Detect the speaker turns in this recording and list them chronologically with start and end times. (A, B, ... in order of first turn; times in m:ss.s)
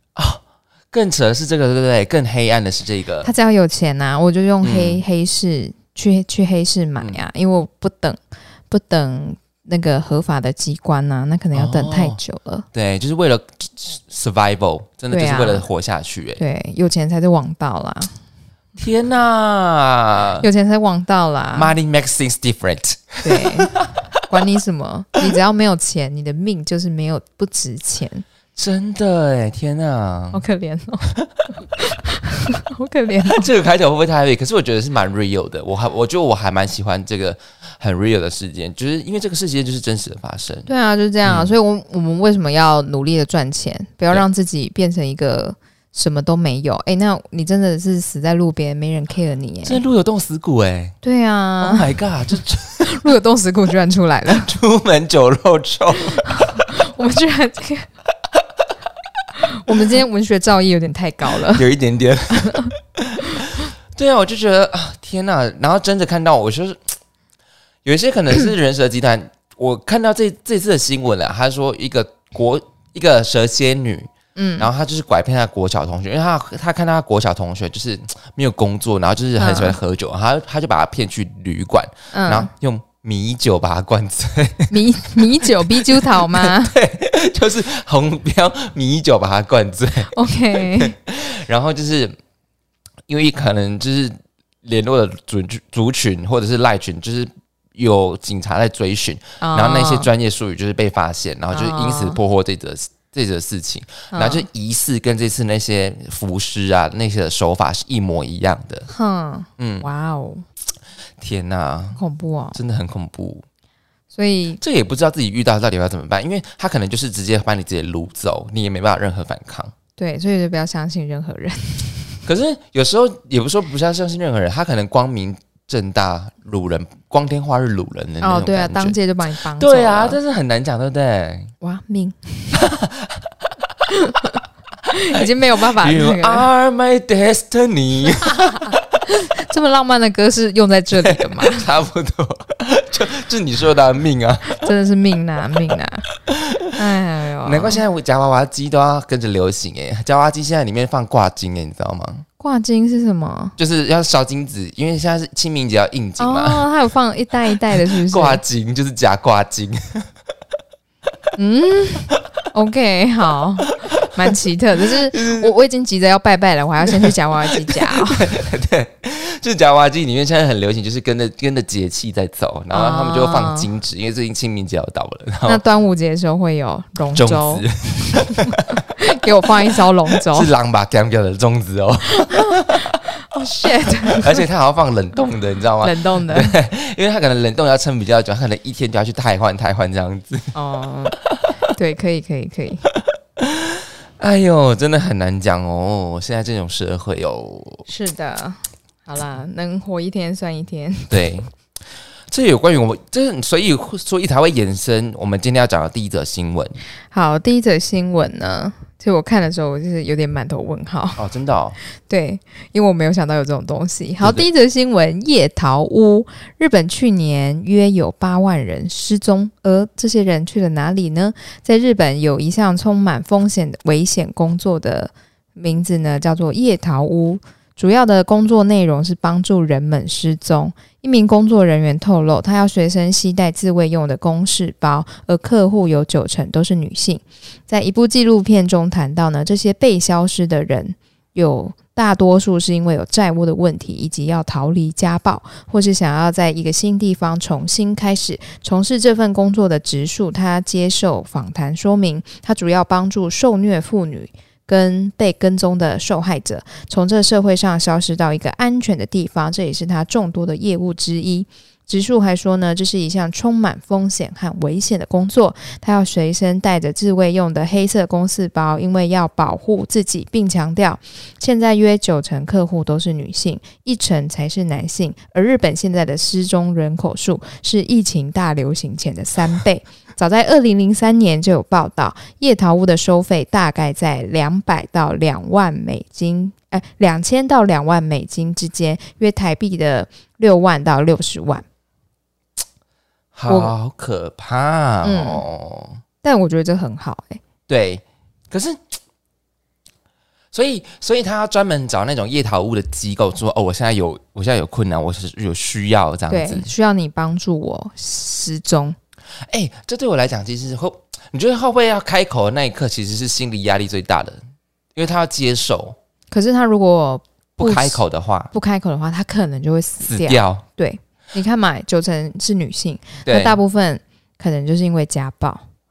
0:00.2-0:03.3 A
0:03.2-0:08.2 B
0:04.6-0:05.0 A
0:08.7-0:12.7 B
0:11.5-0:12.2 A
0:12.7-0:16.4 A
0:15.1-0:15.7 B
0:16.4-0:18.1 B
0:18.8-0:20.5 A
0:20.4-0:21.7 B
0:21.5-0:23.9 A
0:23.2-0:28.2 B
0:28.6-0:30.4 A
0:30.3-0:31.1 B
0:31.8-0:33.5 B
0:33.3-0:40.7 A
0:40.7-0:49.8 B
0:41.2-0:41.5 A
0:49.6-0:51.0 A
0:51.0-0:52.0 B
0:51.6-0:52.9 A
0:52.8-0:54.6 B
0:54.3-0:56.4 A
0:56.1-0:57.9 B
0:59.4-1:01.7 B
1:01.3-1:07.0 A
1:02.4-1:02.7 B
1:07.8-1:32.2 A
1:14.4-1:14.7 B
1:19.4-1:19.8 B
1:22.1-1:22.5 B
1:24.7-1:26.8 B
1:30.1-1:31.0 B
1:33.1-1:48.9 A
1:39.4-1:40.1 B
1:41.5-1:42.2 B
1:44.1-1:44.5 B
1:48.9-1:50.4 B
1:49.6-1:49.9 A
1:51.2-1:52.0 A
1:52.0-1:52.6 B
1:52.6-1:53.4 A
1:54.1-1:54.6 B
1:54.6-1:59.7 A
2:00.0-2:02.2 B
2:02.3-2:09.0 A
2:08.2-2:10.2 B
2:09.6-2:11.5 A
2:11.6-2:12.8 B
2:12.5-2:13.5 A
2:13.9-2:16.5 B
2:15.8-2:18.8 A
2:18.3-2:21.7 B
2:21.0-2:24.6 A
2:24.5-2:26.1 B
2:26.3-2:26.8 A
2:26.8-2:27.8 B
2:27.4-2:32.2 A
2:32.4-2:33.6 B
2:33.6-2:36.6 A
2:36.2-2:38.4 B
2:37.8-2:40.1 A
2:41.4-2:48.3 B
2:45.1-2:45.5 A
2:46.9-2:55.6 A
2:52.7-2:53.7 B
2:55.5-3:00.5 B
2:57.2-2:58.8 A
3:00.3-3:02.9 A
3:02.2-3:04.4 B
3:04.2-3:10.5 A
3:05.8-3:06.6 B
3:10.6-3:11.2 B
3:11.7-3:12.9 B
3:13.4-3:17.9 A
3:17.9-3:21.3 B
3:21.1-3:21.5 A
3:22.3-3:26.8 A
3:27.1-3:31.2 B
3:31.2-3:31.8 A
3:32.0-4:51.6 B
3:34.2-3:34.5 A
4:53.4-4:56.0 A
4:53.5-4:53.7 B
4:55.0-4:55.4 B
4:56.2-4:57.4 B
4:57.7-4:58.8 A
5:00.5-5:06.7 A
5:06.3-5:09.0 B
5:09.5-5:14.4 A
5:15.0-5:16.0 A
5:16.3-5:18.0 B
5:17.6-5:18.5 A
5:18.5-5:25.6 B
5:20.0-5:20.6 A
5:23.3-5:23.6 A